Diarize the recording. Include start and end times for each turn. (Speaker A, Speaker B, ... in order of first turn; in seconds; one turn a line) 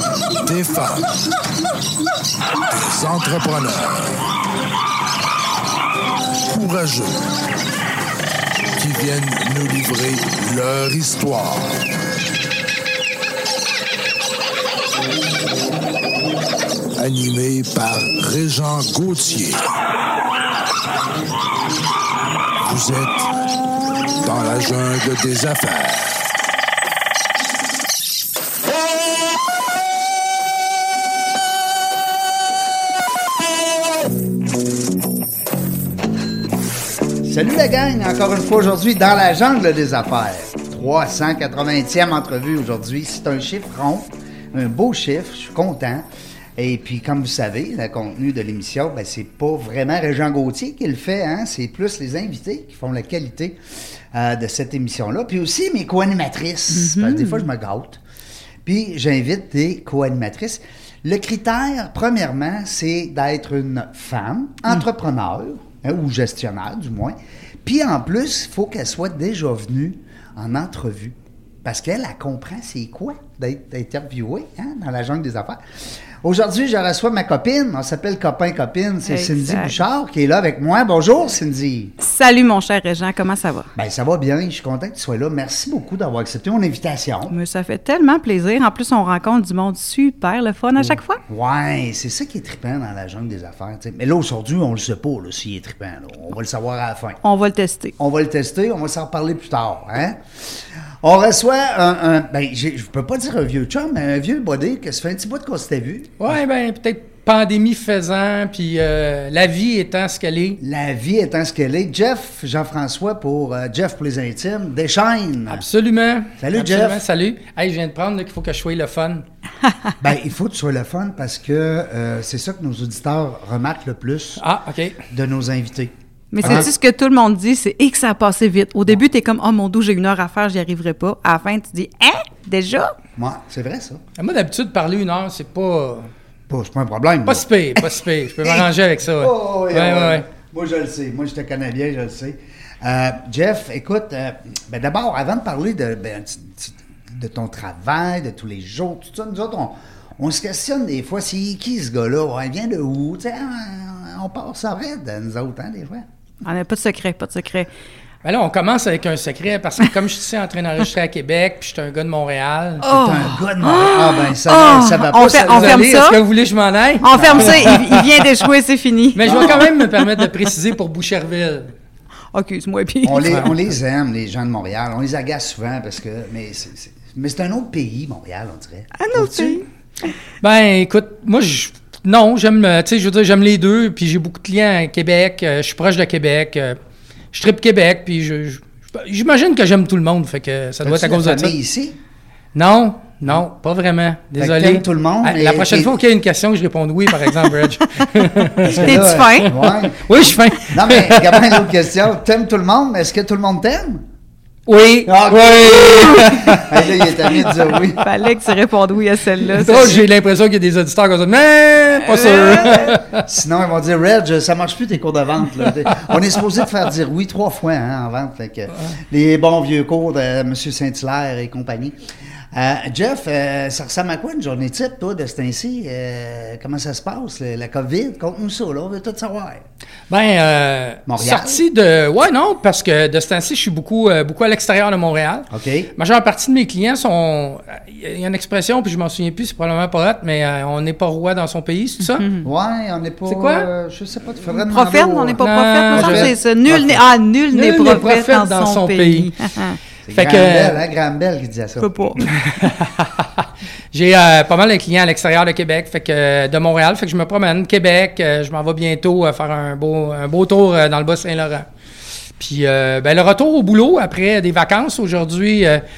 Speaker A: 0.4-1.2
Speaker A: 2.8-4.2
Speaker A: 6.5-7.2
Speaker A: 8.8-11.8
Speaker A: 17.0-19.6
Speaker A: 22.6-23.3
Speaker A: 24.2-26.3
Speaker B: 37.2-46.0
Speaker B: 46.6-53.6
Speaker B: 54.1-58.0
Speaker C: 56.7-57.5
Speaker B: 58.6-75.6
Speaker B: 76.2-81.9
Speaker C: 79.0-79.8
Speaker C: 82.0-83.7
Speaker B: 83.7-87.3
Speaker C: 87.3-91.2
Speaker B: 90.8-97.2
Speaker C: 97.2-97.9
Speaker B: 98.0-106.4
Speaker D: 106.2-110.6
Speaker B: 110.6-115.6
Speaker D: 115.5-119.2
Speaker B: 116.4-117.0
Speaker B: 120.0-124.4
Speaker D: 124.4-125.0
Speaker B: 125.1-126.7
Speaker C: 126.3-132.9
Speaker B: 133.2-134.0
Speaker D: 134.2-136.1
Speaker B: 136.5-138.7
Speaker D: 137.2-140.2
Speaker B: 139.2-156.1
Speaker C: 156.4-157.7
Speaker D: 158.2-162.8
Speaker C: 162.8-166.2
Speaker B: 162.8-165.8
Speaker D: 165.4-168.2
Speaker C: 167.0-170.2
Speaker B: 167.1-168.0
Speaker D: 169.1-171.7
Speaker B: 169.2-169.7
Speaker C: 172.3-173.5
Speaker B: 173.0-179.6
Speaker C: 178.9-179.6
Speaker D: 180.4-186.8
Speaker D: 187.3-191.5
Speaker B: 190.8-192.0
Speaker D: 192.5-201.7
Speaker B: 194.4-196.0
Speaker C: 197.8-199.5
Speaker B: 198.6-200.1
Speaker B: 200.7-204.0
Speaker D: 204.7-207.5
Speaker B: 205.1-208.1
Speaker C: 207.9-210.0
Speaker D: 209.6-213.2
Speaker B: 212.2-221.9
Speaker C: 212.5-212.8
Speaker B: 222.5-229.6
Speaker D: 230.1-242.2
Speaker B: 231.1-231.6
Speaker B: 235.5-235.9
Speaker C: 242.2-242.5
Speaker B: 242.4-247.0
Speaker D: 243.3-243.7
Speaker C: 244.5-249.8
Speaker D: 245.4-246.3
Speaker D: 247.5-249.3
Speaker B: 250.1-252.3
Speaker D: 250.1-250.8
Speaker C: 251.8-252.2
Speaker D: 252.2-261.7
Speaker D: 262.4-265.8